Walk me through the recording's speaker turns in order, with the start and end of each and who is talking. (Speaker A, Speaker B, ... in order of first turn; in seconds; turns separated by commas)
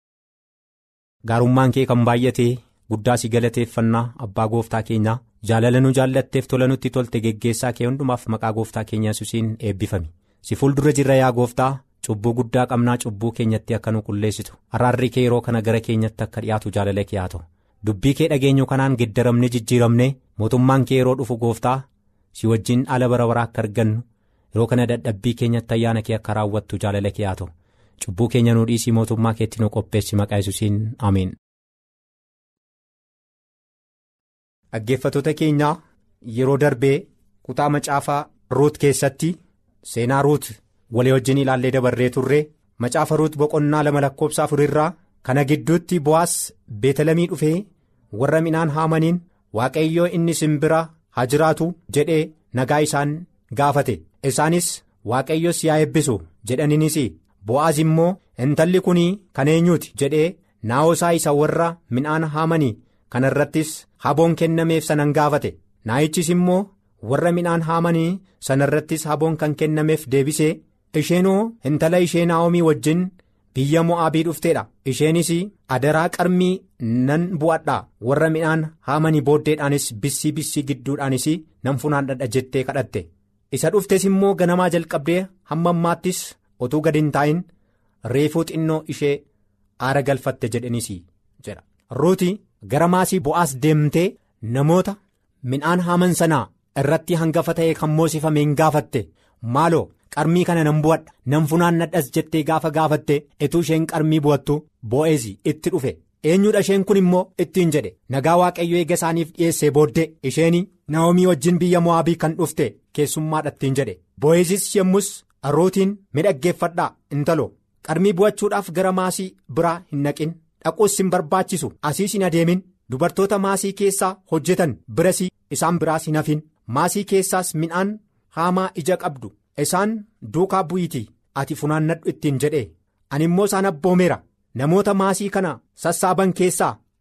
Speaker A: 1.3-21.9, Speaker A: 22.4-24.0, Speaker A: 24.6-27.5, Speaker A: 28.0-31.4, Speaker A: 34.7-35.8, Speaker A: 36.3-87.5, Speaker A: 88.1-89.2, Speaker A: 89.8-136.8